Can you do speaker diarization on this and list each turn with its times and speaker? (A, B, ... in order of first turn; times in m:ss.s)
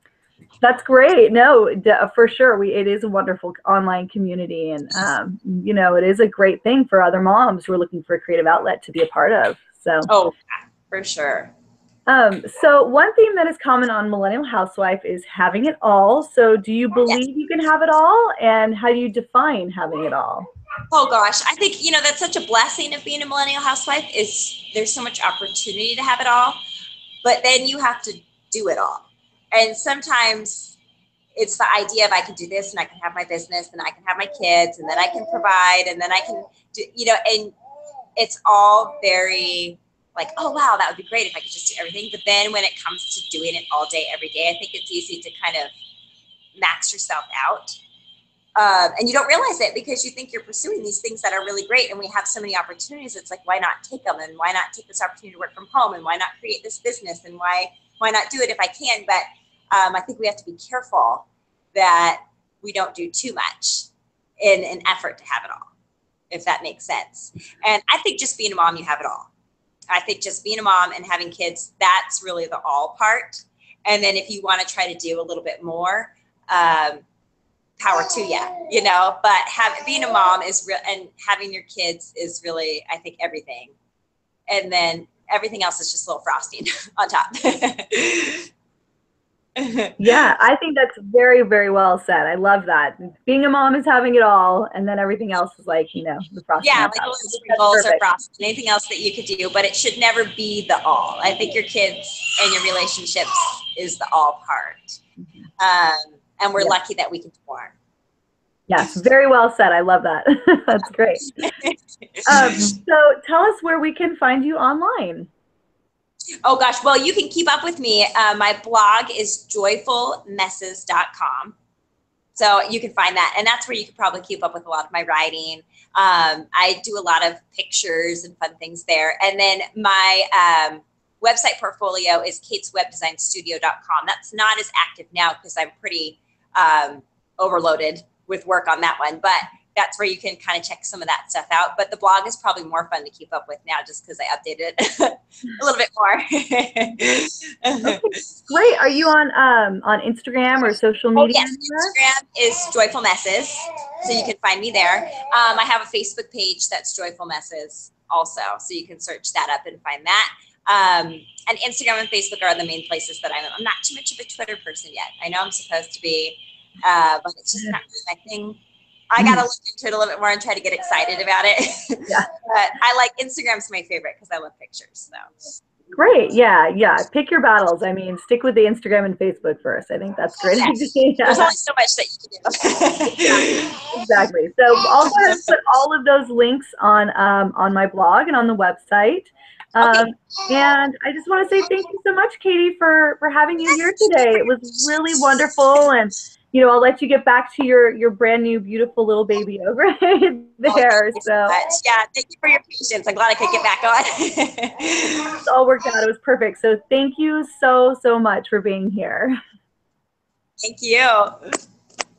0:00.6-0:10.1 A
0:10.1-0:11.5 B
0:12.1-0:20.5 A
0:20.9-0:26.6 B
0:27.2-0:30.8 B
0:31.3-0:37.5 B
0:38.2-0:45.7 B
0:46.6-0:47.7 B
0:48.6-1:03.9 B
1:04.4-1:05.7 B
1:06.3-1:09.3 B
1:09.9-1:17.0 B
1:17.8-1:23.7 B
1:24.5-1:28.5 B
1:29.6-1:29.9 B
1:30.0-1:38.0 A
1:36.6-1:45.0 B
1:45.2-1:45.5 A
1:45.6-1:47.7 B
1:48.7-1:51.5 A
1:51.4-1:52.7 B
1:52.2-1:55.3 A
1:56.4-2:01.6 B
2:02.3-2:28.0 B
2:27.8-2:31.9 A
2:31.2-2:48.6 B
2:49.1-2:55.2 B
2:55.9-3:01.5 A
3:00.6-3:03.8 B
3:03.4-3:21.6 A
3:05.0-3:05.4 B
3:09.8-3:10.1 B
3:13.7-3:14.4 B
3:20.7-3:25.3 B
3:25.3-3:29.4 A
3:30.6-3:31.4 B